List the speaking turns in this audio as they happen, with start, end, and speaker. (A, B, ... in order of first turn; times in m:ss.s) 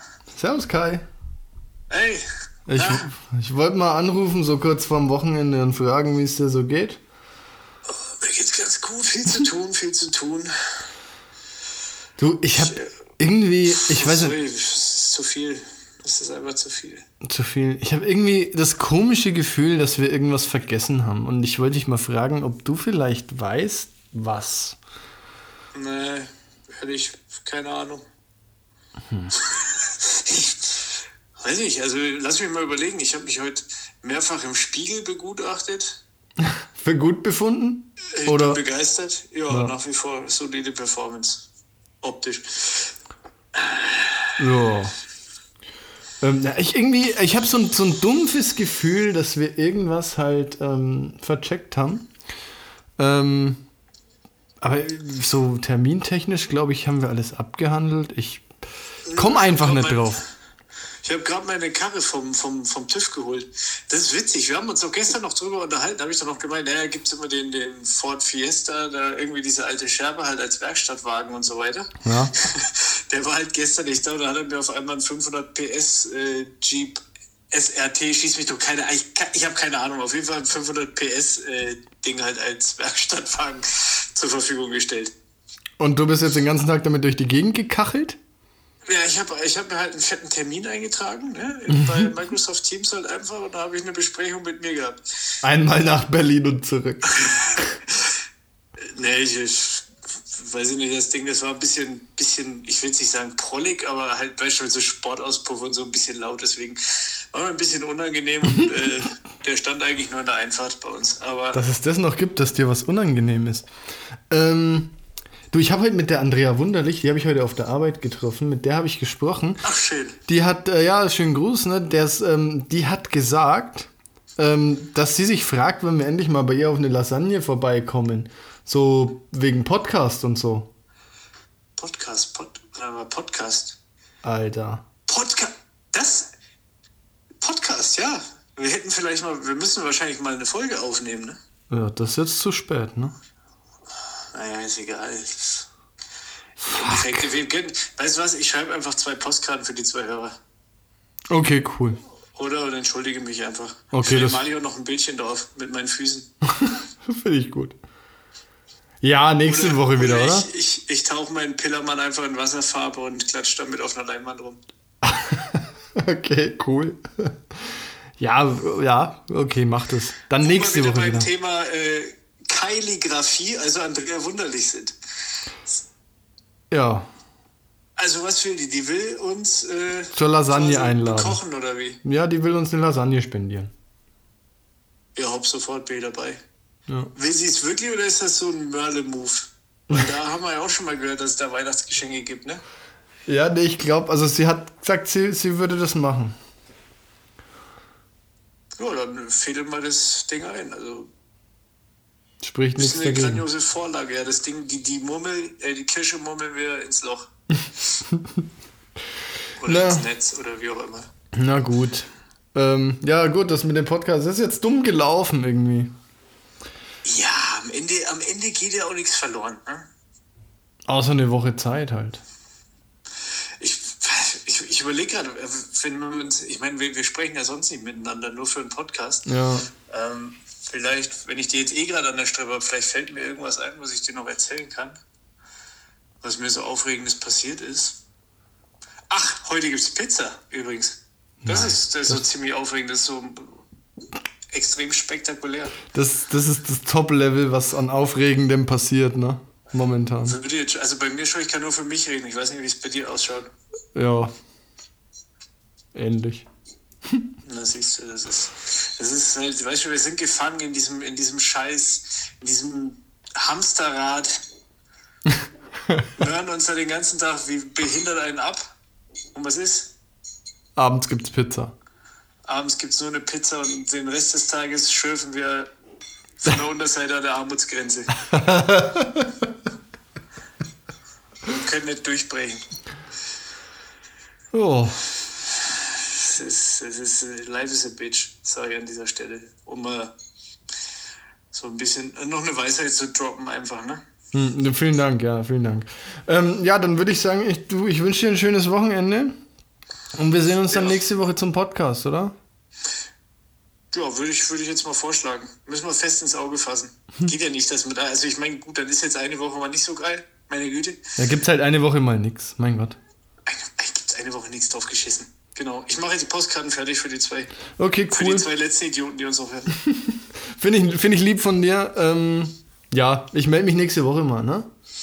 0:00.4-0:01.0 A
0:01.9-0:02.2 B
0:02.7-0:07.0 A
0:02.7-0:03.1 B
0:07.9-0:10.7 B
0:12.2-0:14.4 A
0:12.6-0:12.9 B
0:13.7-0:17.0 B
0:17.2-0:24.8 A
0:25.7-0:28.0 B
0:29.3-0:36.0 B
0:36.4-0:38.6 A
0:38.1-0:41.5 B
0:39.5-0:39.7 A
0:42.0-0:42.9 B
0:43.5-0:44.3 B
0:44.4-0:45.0 A
0:46.2-0:52.1 A
0:53.0-0:53.6 A
0:54.6-0:58.4 A
0:59.0-1:00.2 B
0:59.1-1:00.2 A
1:01.0-1:17.0 B
1:12.0-1:12.3 A
1:17.5-1:25.1 B
1:25.8-1:28.2 A
1:28.9-1:35.0 B
1:31.7-1:32.1 A
1:35.4-1:37.6 A
1:37.2-1:38.1 B
1:38.9-1:46.8 B
1:47.3-1:51.6 B
1:51.5-1:53.7 A
1:54.3-1:54.9 A
1:55.5-1:59.6 A
1:59.6-2:00.2 B
2:00.3-2:10.7 A
2:11.8-2:13.8 B
2:14.2-2:14.8 A
2:15.1-2:16.3 B
2:17.4-2:21.4 B
2:21.7-2:23.1 A
2:24.3-2:25.7 B
2:26.6-2:30.4 B
2:26.7-2:27.1 A
2:31.3-2:32.0 A
2:32.3-2:36.3 B
2:33.9-2:34.4 A
2:36.6-2:37.8 A
2:39.0-2:40.5 A
2:39.4-2:44.6 B
2:45.0-2:47.3 A
2:48.2-2:51.3 A
2:50.4-2:55.0 B
2:56.7-2:57.1 A
2:58.0-3:02.0 B
3:00.1-3:01.4 A
3:02.0-3:03.7 A
3:05.1-3:06.4 B
3:07.1-3:12.6 B
3:13.3-3:16.4 A
3:18.8-3:21.1 B
3:22.4-3:23.4 A
3:22.8-3:27.3 B
3:28.1-3:28.4 A
3:29.6-3:31.1 B
3:29.6-3:30.0 A
3:31.3-3:35.9 A
3:37.0-3:39.9 B
3:40.9-3:42.2 A
3:43.6-3:49.3 B
3:49.2-3:49.7 A
3:49.8-3:55.0 B
3:56.2-3:58.0 B
3:59.1-4:03.6 B
4:01.4-4:02.2 A
4:04.5-4:05.8 B
4:05.9-4:10.4 A
4:10.2-4:13.5 B
4:13.9-4:14.3 A
4:15.9-4:16.5 A
4:17.4-4:24.3 B
4:26.2-4:28.7 B
4:29.3-4:29.9 B
4:30.8-4:31.7 A
4:32.4-4:35.7 B
4:36.4-4:38.1 B
4:38.3-4:39.3 A
4:41.4-4:42.6 B
4:44.5-4:45.0 A
4:45.3-4:50.1 B
4:51.5-4:54.0 B
4:54.3-4:59.4 A
5:00.1-5:02.3 A
5:00.7-5:01.0 B
5:03.9-5:11.0 B
5:11.2-5:13.0 A
5:13.4-5:17.5 B
5:17.8-5:18.5 A
5:18.1-5:19.7 B
5:19.8-5:24.7 A